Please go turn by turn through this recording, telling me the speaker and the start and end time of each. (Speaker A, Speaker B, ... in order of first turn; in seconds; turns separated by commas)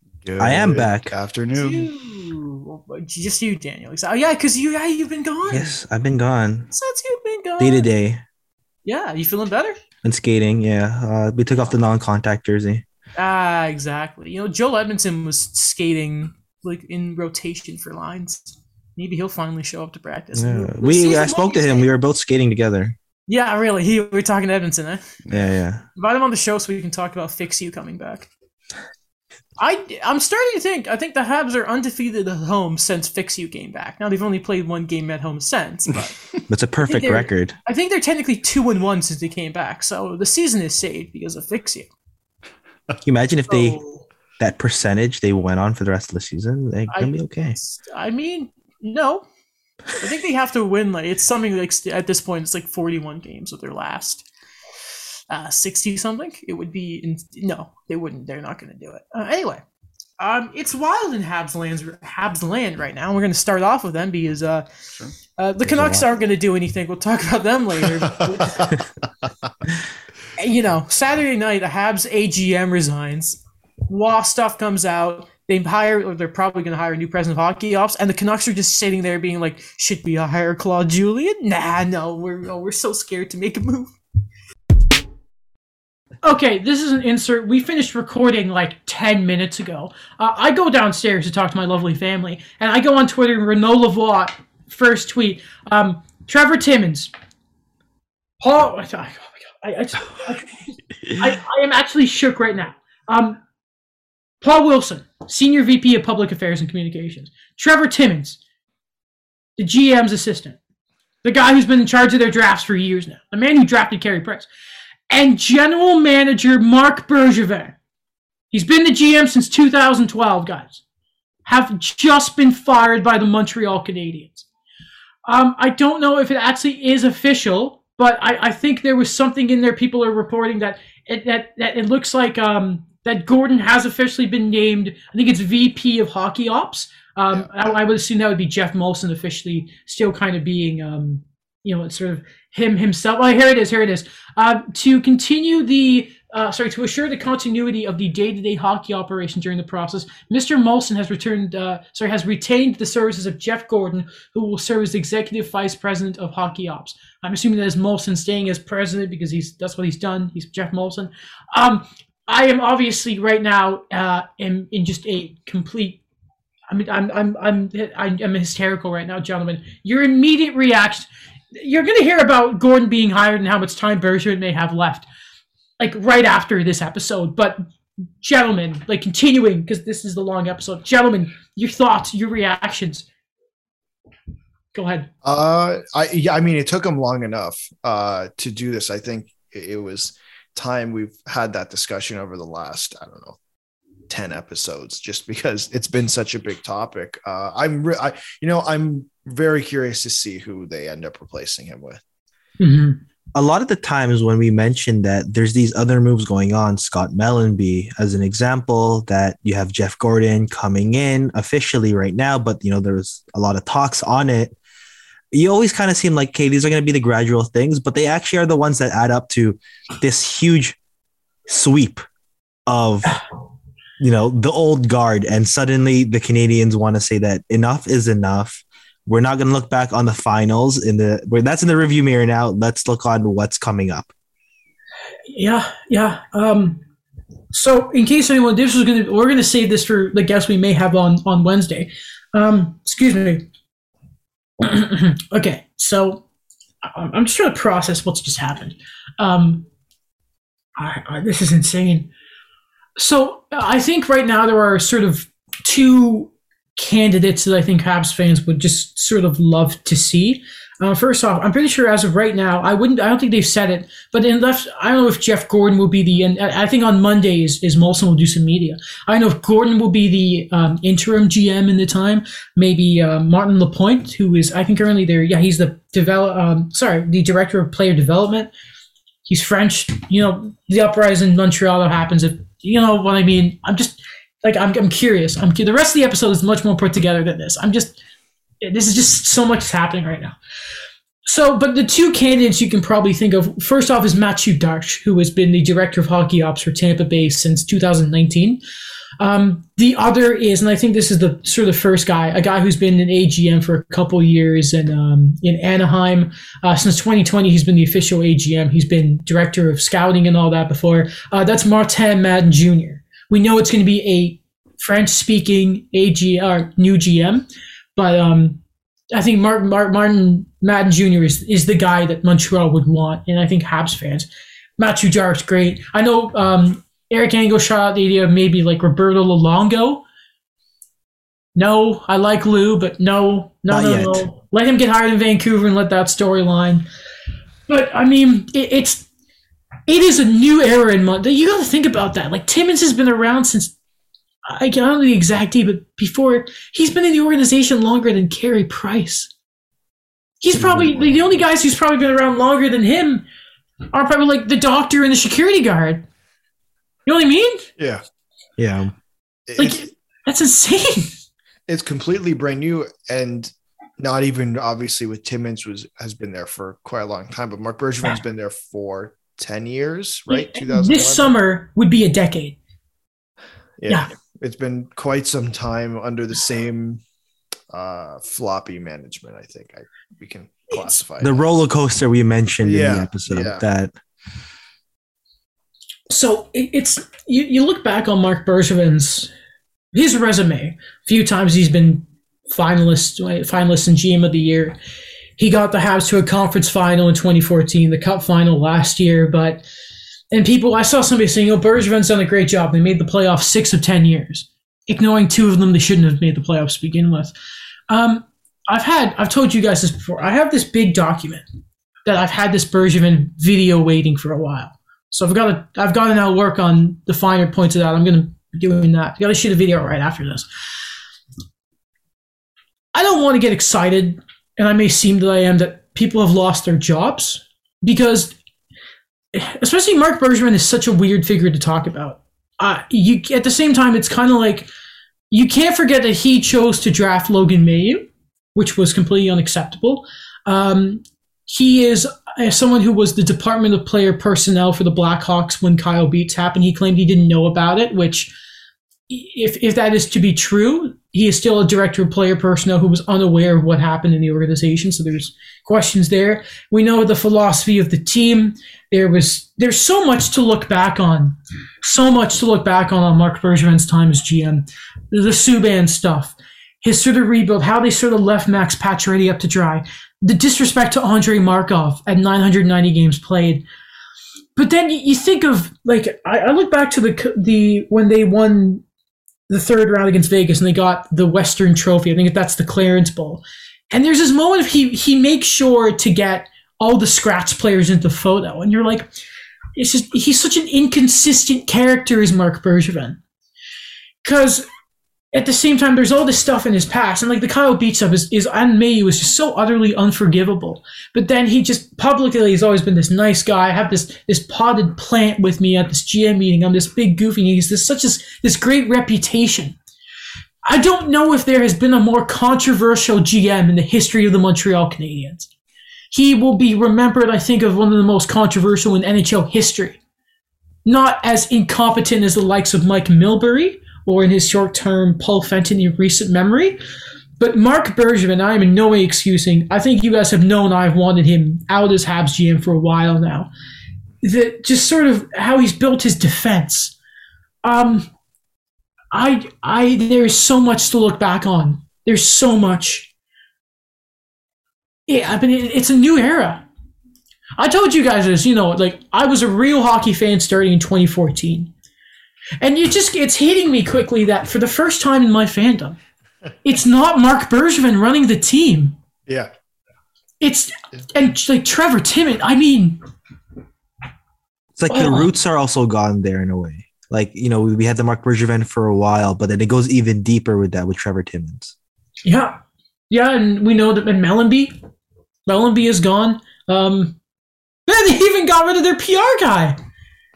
Speaker A: 0.2-1.9, Speaker B: 0.4-1.1, Speaker C: 1.6-5.7, Speaker B: 5.5-6.7, Speaker C: 6.7-7.9, Speaker B: 7.6-8.2, Speaker C: 8.8-9.8, Speaker B: 10.0-12.8, Speaker C: 13.2-21.9, Speaker B: 20.3-22.9, Speaker C: 23.3-25.1, Speaker A: 25.2-25.6, Speaker B: 25.3-25.8, Speaker C: 25.9-28.3, Speaker C: 29.6-36.2, Speaker B: 36.5-37.5, Speaker C: 36.9-41.9, Speaker B: 43.0-43.8, Speaker C: 43.5-44.0, Speaker B: 44.4-47.6, Speaker C: 46.9-49.2, Speaker C: 49.9-54.2, Speaker C: 55.3-59.6, Speaker C: 60.2-64.7, Speaker C: 65.4-68.8, Speaker B: 65.6-66.0, Speaker A: 68.5-68.7, Speaker C: 70.4-83.9, Speaker C: 86.2-97.1, Speaker C: 98.4-100.6, Speaker C: 101.1-103.4, Speaker C: 104.4-108.4, Speaker C: 109.6-110.6, Speaker C: 111.2-114.5, Speaker C: 115.1-117.8, Speaker C: 118.5-120.8, Speaker C: 121.4-124.5, Speaker C: 125.2-166.0, Speaker C: 166.7-175.1, Speaker C: 175.8-177.7, Speaker C: 178.2-183.1, Speaker C: 184.7-185.1, Speaker A: 185.2-193.4, Speaker A: 194.1-202.0, Speaker C: 202.6-203.0, Speaker B: 203.3-214.6, Speaker B: 215.3-220.8, Speaker B: 221.5-222.0, Speaker B: 222.7-223.2, Speaker B: 224.0-234.1, Speaker C: 235.3-236.8, Speaker C: 237.5-243.4, Speaker C: 244.6-246.2, Speaker C: 246.8-249.7, Speaker C: 250.8-252.1, Speaker C: 253.0-278.5, Speaker C: 279.3-288.0, Speaker C: 288.6-290.4, Speaker C: 291.2-298.6, Speaker C: 299.2-318.6, Speaker C: 319.1-330.0, Speaker C: 331.6-336.9, Speaker B: 333.7-334.2, Speaker C: 337.7-339.1, Speaker C: 339.9-343.7, Speaker C: 344.5-349.3, Speaker C: 350.4-353.2, Speaker B: 350.6-350.9, Speaker C: 353.9-356.1, Speaker C: 357.1-357.7, Speaker B: 358.6-358.9, Speaker A: 359.5-359.9, Speaker C: 359.6-361.1, Speaker A: 361.7-371.4, Speaker C: 370.3-372.6, Speaker A: 373.8-377.0, Speaker A: 377.7-381.5, Speaker C: 380.7-381.0, Speaker B: 381.2-383.9, Speaker A: 382.6-383.6, Speaker C: 386.1-389.3, Speaker C: 389.9-394.8, Speaker C: 395.4-399.6, Speaker C: 400.3-407.3, Speaker C: 407.9-411.4, Speaker C: 412.1-420.5, Speaker C: 422.9-428.4, Speaker C: 429.3-434.7, Speaker C: 435.3-448.3, Speaker C: 449.1-473.6, Speaker C: 474.6-478.8, Speaker C: 479.5-489.1, Speaker C: 489.8-493.2, Speaker C: 494.2-494.6, Speaker C: 495.3-509.8, Speaker C: 510.6-515.5, Speaker C: 516.1-520.0, Speaker C: 520.9-526.8, Speaker C: 527.4-533.5, Speaker C: 534.2-536.9, Speaker C: 537.6-538.1, Speaker C: 539.1-543.1, Speaker C: 545.1-546.6, Speaker C: 547.6-551.7, Speaker C: 552.6-556.0, Speaker C: 556.6-559.0, Speaker C: 560.4-563.0, Speaker B: 564.8-571.7, Speaker C: 564.9-565.3, Speaker C: 572.2-572.6, Speaker C: 573.1-574.8, Speaker C: 575.5-577.2, Speaker C: 577.9-579.8